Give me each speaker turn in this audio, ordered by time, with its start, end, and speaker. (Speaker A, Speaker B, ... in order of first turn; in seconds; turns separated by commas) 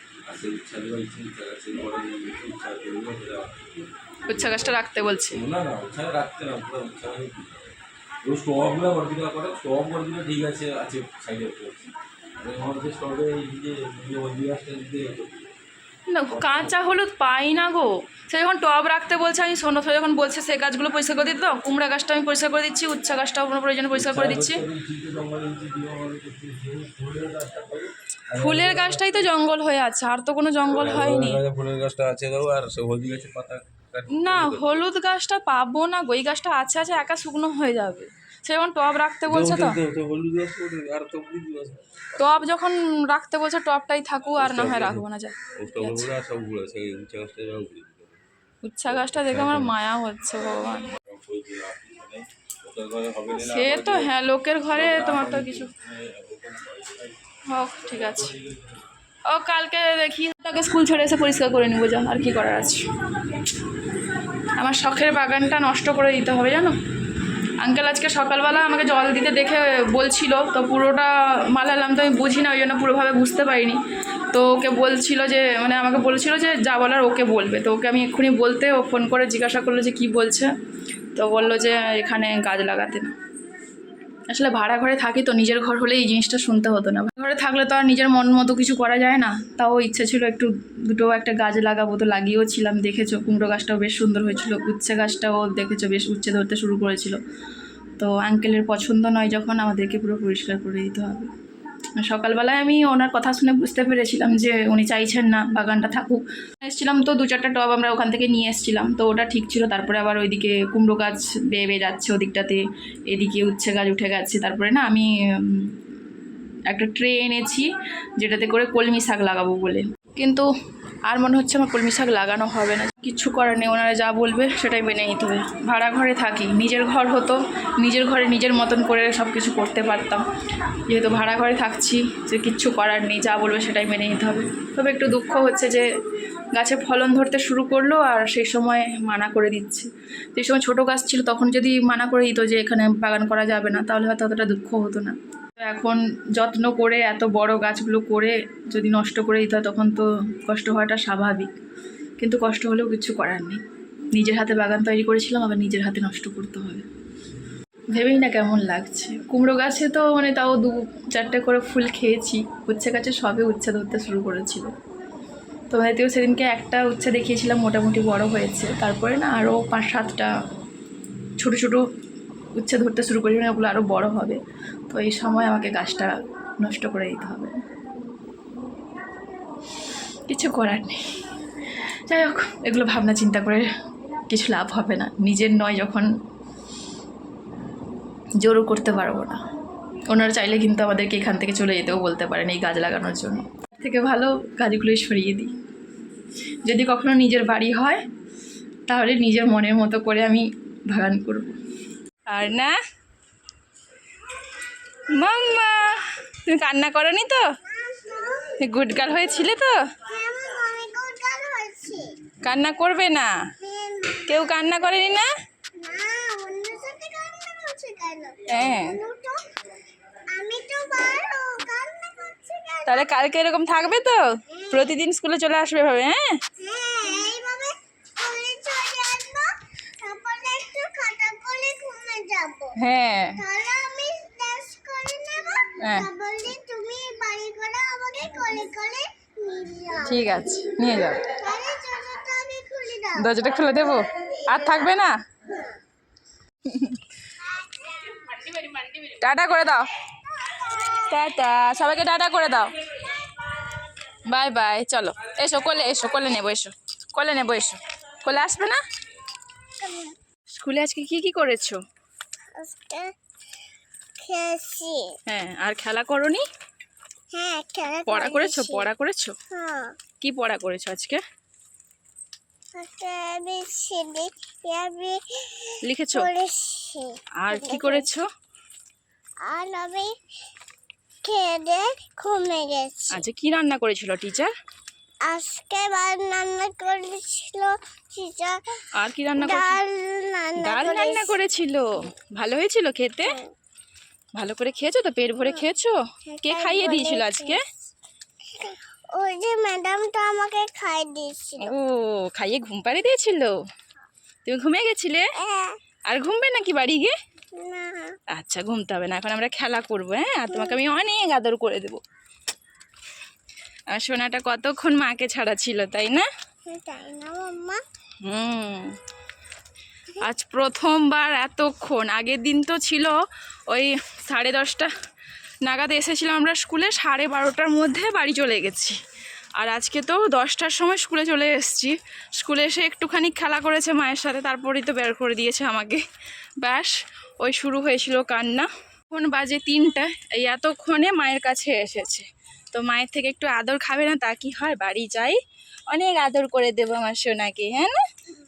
Speaker A: 0.3-3.7, Speaker B: 4.3-5.4, Speaker A: 4.3-4.8, Speaker A: 5.3-15.5, Speaker B: 16.1-24.6, Speaker A: 16.3-16.8, Speaker A: 23.9-29.3, Speaker B: 28.3-31.4, Speaker A: 30.7-34.8, Speaker B: 34.1-39.8, Speaker A: 39.3-42.3, Speaker B: 42.2-46.1, Speaker A: 44.4-48.2, Speaker B: 48.6-50.9, Speaker A: 48.9-49.8, Speaker A: 50.9-54.1, Speaker B: 53.4-55.7, Speaker A: 54.7-57.2, Speaker B: 57.5-58.3, Speaker A: 57.8-58.9, Speaker B: 59.3-62.9, Speaker B: 64.6-66.8, Speaker B: 67.6-73.8, Speaker B: 74.3-80.5, Speaker B: 81.2-83.2, Speaker B: 84.3-97.2, Speaker B: 98.0-101.3, Speaker B: 102.0-115.8, Speaker B: 116.7-120.5, Speaker B: 121.1-130.3, Speaker B: 130.9-135.9, Speaker B: 136.5-151.6, Speaker B: 152.2-156.8, Speaker B: 157.9-164.7, Speaker B: 165.7-170.3, Speaker B: 171.4-171.8, Speaker B: 172.6-177.6, Speaker B: 180.3-181.0, Speaker B: 182.1-183.7, Speaker B: 184.3-186.1, Speaker B: 188.4-189.4, Speaker B: 190.1-195.6, Speaker B: 196.6-198.0, Speaker B: 198.9-201.6, Speaker B: 202.3-202.8, Speaker B: 205.1-207.5, Speaker C: 207.6-208.6, Speaker B: 208.6-209.9, Speaker C: 210.1-212.2, Speaker B: 212.4-213.5, Speaker C: 213.6-214.8, Speaker B: 214.3-215.3, Speaker C: 215.8-219.5, Speaker B: 218.5-219.0, Speaker C: 220.3-223.2, Speaker B: 222.9-226.4, Speaker C: 224.5-224.8, Speaker C: 226.6-232.8, Speaker B: 232.8-233.4, Speaker C: 233.4-240.3, Speaker B: 235.8-236.1, Speaker B: 240.1-241.3, Speaker C: 241.2-243.3, Speaker B: 243.2-245.2, Speaker B: 246.7-247.0, Speaker C: 247.4-248.4, Speaker B: 248.7-249.9, Speaker C: 250.3-251.1, Speaker B: 251.1-252.8, Speaker B: 254.3-258.8, Speaker C: 259.8-260.2, Speaker B: 260.5-261.8, Speaker C: 262.6-263.1, Speaker C: 264.2-265.2, Speaker B: 265.3-266.4, Speaker C: 267.3-268.9, Speaker B: 268.1-269.3, Speaker C: 269.5-270.0, Speaker B: 270.2-271.2, Speaker C: 272.8-278.1, Speaker B: 275.8-276.3, Speaker B: 277.4-278.3, Speaker C: 279.4-280.1, Speaker C: 281.2-283.2, Speaker B: 283.1-284.5, Speaker C: 285.2-291.4, Speaker B: 289.0-289.8, Speaker B: 290.6-293.4, Speaker B: 294.4-297.6, Speaker C: 296.3-297.6, Speaker C: 298.5-301.7, Speaker B: 301.6-303.6, Speaker B: 304.4-305.3, Speaker C: 305.4-305.8, Speaker B: 306.1-307.1, Speaker C: 307.5-308.2, Speaker B: 308.3-312.0, Speaker C: 310.5-310.8, Speaker B: 313.9-316.3, Speaker C: 316.7-317.8, Speaker B: 318.2-319.0, Speaker B: 320.2-323.2, Speaker B: 323.7-324.9, Speaker B: 325.6-329.0, Speaker B: 329.6-336.0, Speaker B: 336.6-348.0